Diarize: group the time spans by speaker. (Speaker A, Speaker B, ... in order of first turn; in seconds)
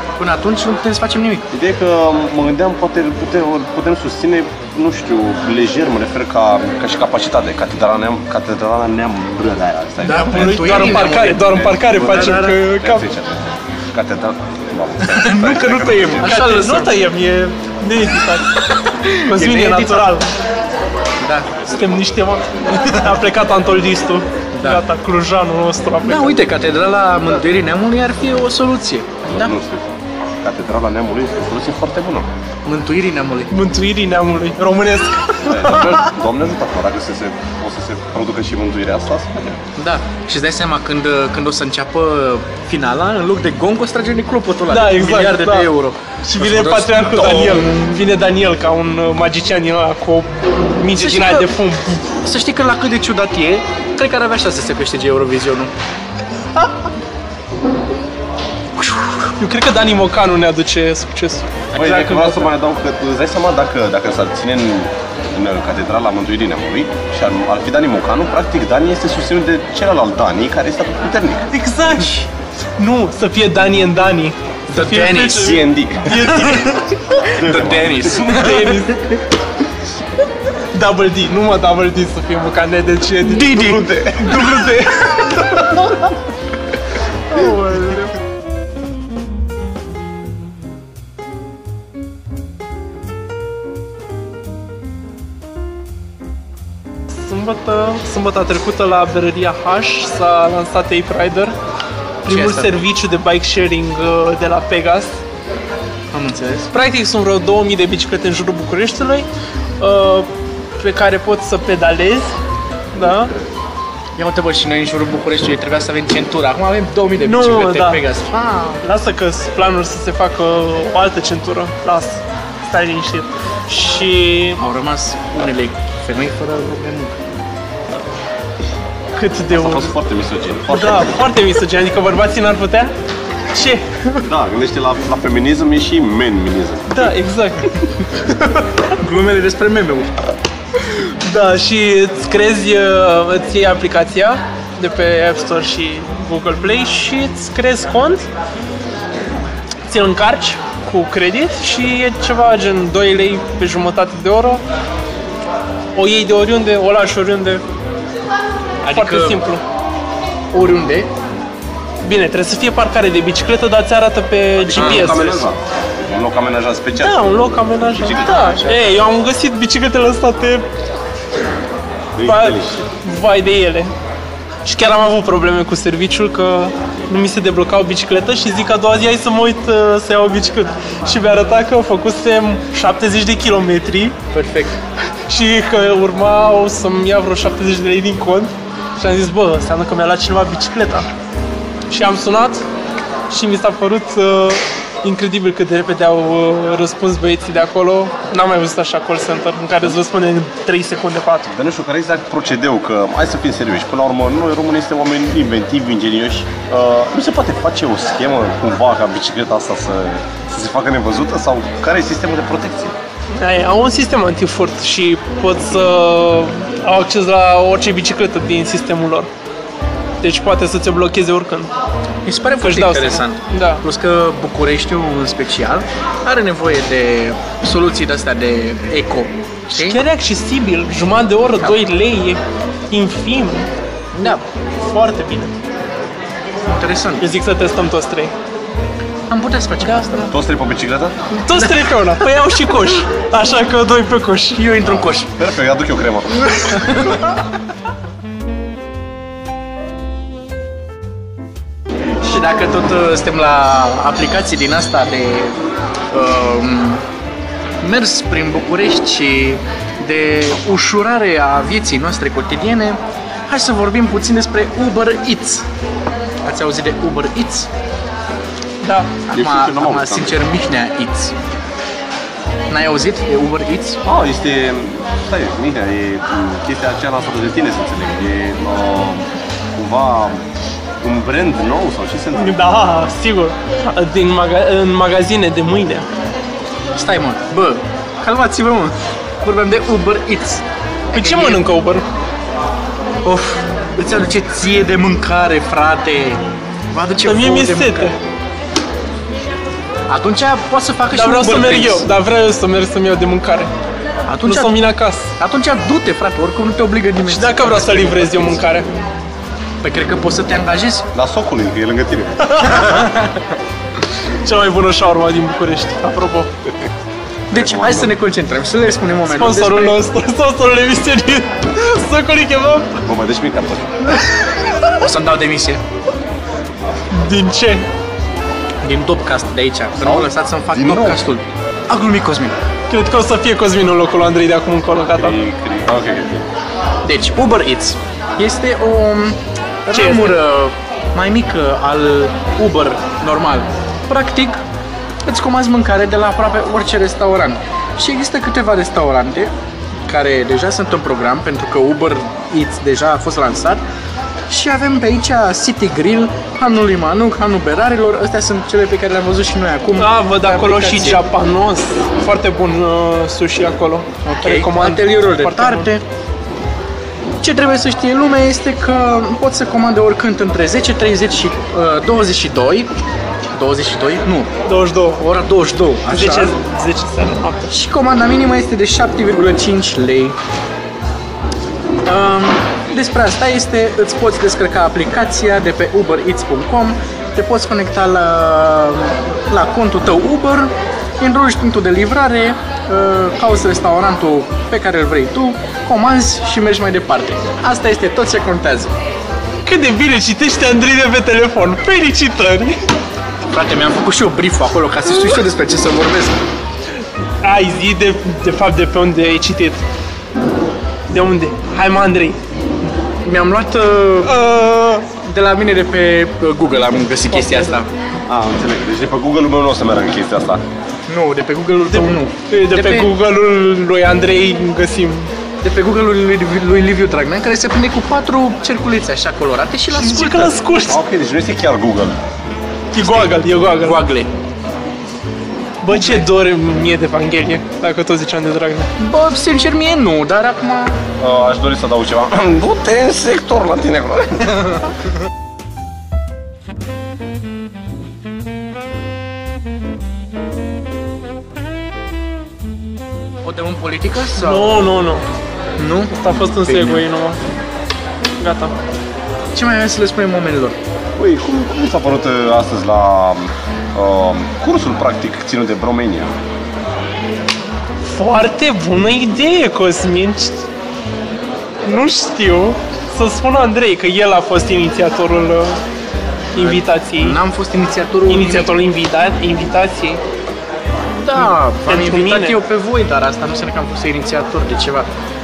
Speaker A: 0.2-1.5, 10.0-12.8, 15.0-16.9, 18.9-20.2, 21.2-21.6, 24.5-24.8, 26.0-29.5, 32.6-33.5, 39.8-47.9, 50.9-51.5, 52.2-55.7, 74.7-75.6, 76.3-79.2, 83.2-85.9, 87.3-88.1, 102.3-102.8, 106.1-106.7, 114.2-118.8, 124.6-127.2, 138.9-140.1, 158.8-159.4, 160.5-161.1, 164.8-165.2, 168.2-168.9, 184.3-184.8, 222.2-230.0, 234.1-234.4, 236.7-237.3, 239.3-240.3, 241.6-241.8, 244.6-245.3, 246.5-247.4, 252.2-255.6, 256.1-257.0, 257.8-265.6, 266.4-267.7, 269.3-271.3, 272.7-274.0, 286.9-291.6, 293.2-298.1, 300.1-302.1, 304.3-304.8, 305.4-308.6, 309.8-311.1, 312.7-313.4, 317.5-320.0, 324.8-325.8, 328.8-332.5, 337.0-344.6, 345.2-349.5, 350.1-353.8, 354.5-361.2, 364.2-366.0, 367.4-372.9, 373.5-374.5, 375.2-376.6, 377.7-380.4, 382.1-398.9, 403.5-406.4, 413.2-417.9, 421.1-423.1, 425.6-430.6, 432.9-434.3, 435.9-436.2, 439.0-441.0, 453.4-454.9, 455.8-457.0, 459.5-460.8, 476.6-478.7, 481.2-485.1
Speaker B: 1.5-16.3, 29.3-29.9, 30.4-32.3, 35.4-39.6, 61.7-71.5, 75.3-76.5, 77.3-78.3, 129.5-131.3, 134.2-137.0, 164.6-168.4, 172.2-172.9, 201.5-212.9, 240.3-241.2, 245.3-246.5, 269.3-270.4, 274.0-280.4, 281.0-282.6, 311.1-312.8, 317.5-318.1, 323.0-324.0, 330.0-331.2, 335.1-336.5, 418.3-420.6, 430.9-432.2, 441.2-444.8, 461.2-466.4
Speaker C: 10.0-13.0, 16.2-20.3, 21.7-26.4, 33.5-36.1, 44.7-45.7, 46.3-52.1, 59.4-62.5, 71.5-76.9, 78.1-79.2, 80.7-85.8, 87.3-88.0, 97.2-101.5, 102.2-105.2, 106.7-109.3, 109.8-112.3, 112.9-113.3, 117.2-118.0, 118.8-124.6, 129.2-129.9, 130.7-132.9, 133.5-134.2, 136.9-137.9, 140.9-148.2, 149.8-154.6, 155.9-157.6, 158.9-159.6, 162.0-165.4, 167.0-170.7, 172.2-173.9, 174.6-184.2, 185.3-191.1, 191.9-192.6, 193.3-201.5, 213.3-219.3, 220.2-221.7, 222.6-223.8, 229.7-233.7, 234.8-235.5, 237.2-238.3, 239.8-240.1, 241.3-244.7, 268.8-269.1, 282.4-286.1, 291.1-292.0, 297.2-298.1, 301.1-303.7, 304.4-305.3, 307.3-308.9, 312.4-313.1, 314.3-316.5, 319.3-323.0, 327.1-327.9, 332.9-335.4, 339.9-340.4, 359.9-365.9, 374.6-375.2, 376.1-377.7, 399.6-402.8, 407.4-409.8, 411.1-412.4, 414.2-415.0, 421.9-425.3, 429.9-431.0, 432.9-434.0, 435.8-438.9, 454.4-455.2, 456.1-457.4, 458.4-458.8, 468.0-470.6, 471.8-475.8, 476.5-477.4, 478.3-480.2, 481.3-482.6